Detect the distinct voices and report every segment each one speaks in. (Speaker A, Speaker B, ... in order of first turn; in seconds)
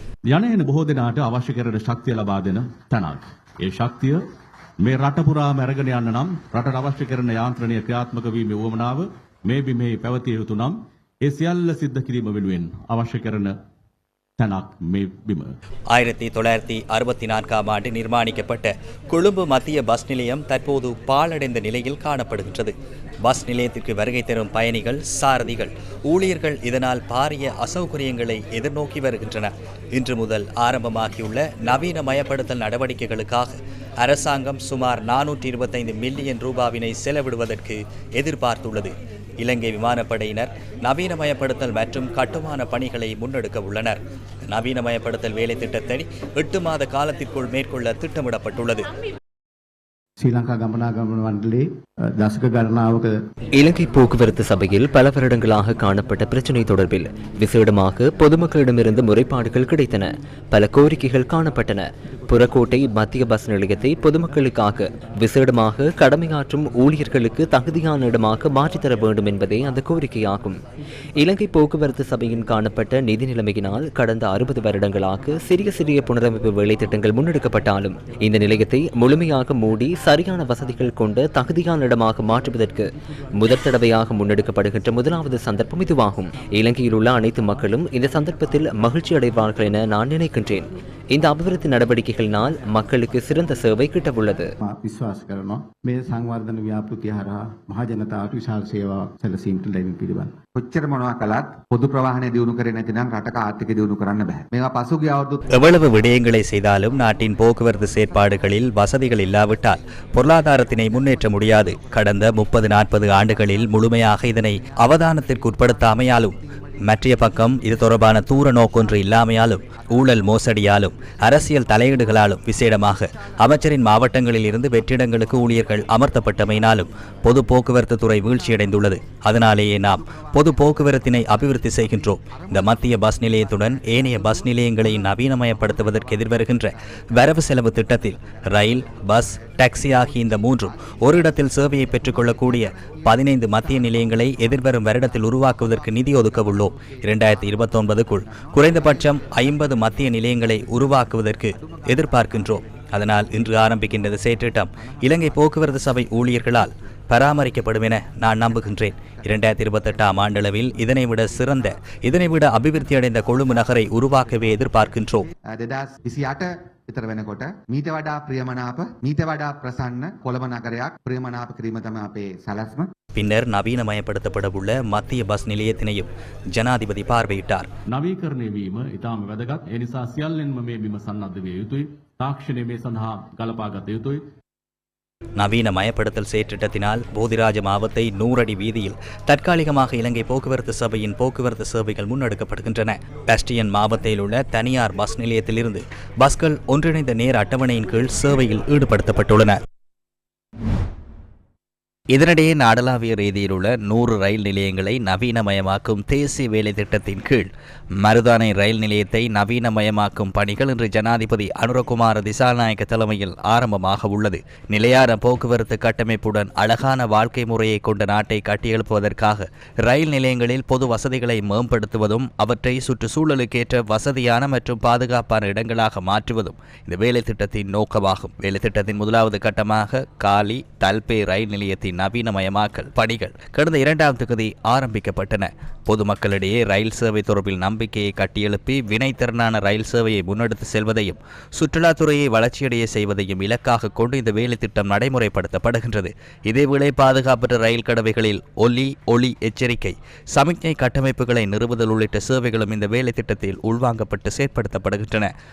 Speaker A: 0.3-4.2, 4.8-13.5, 14.4-15.5, 177.9-184.2
Speaker B: 15.9-48.9, 105.5-116.3, 116.8-165.3, 173.1-177.7, 185.4-199.6, 202.1-207.5, 208.0-255.3
Speaker C: 50.2-53.2, 94.6-100.3
Speaker D: 53.6-70.6, 71.2-94.5
Speaker E: 100.5-105.4, 165.5-172.9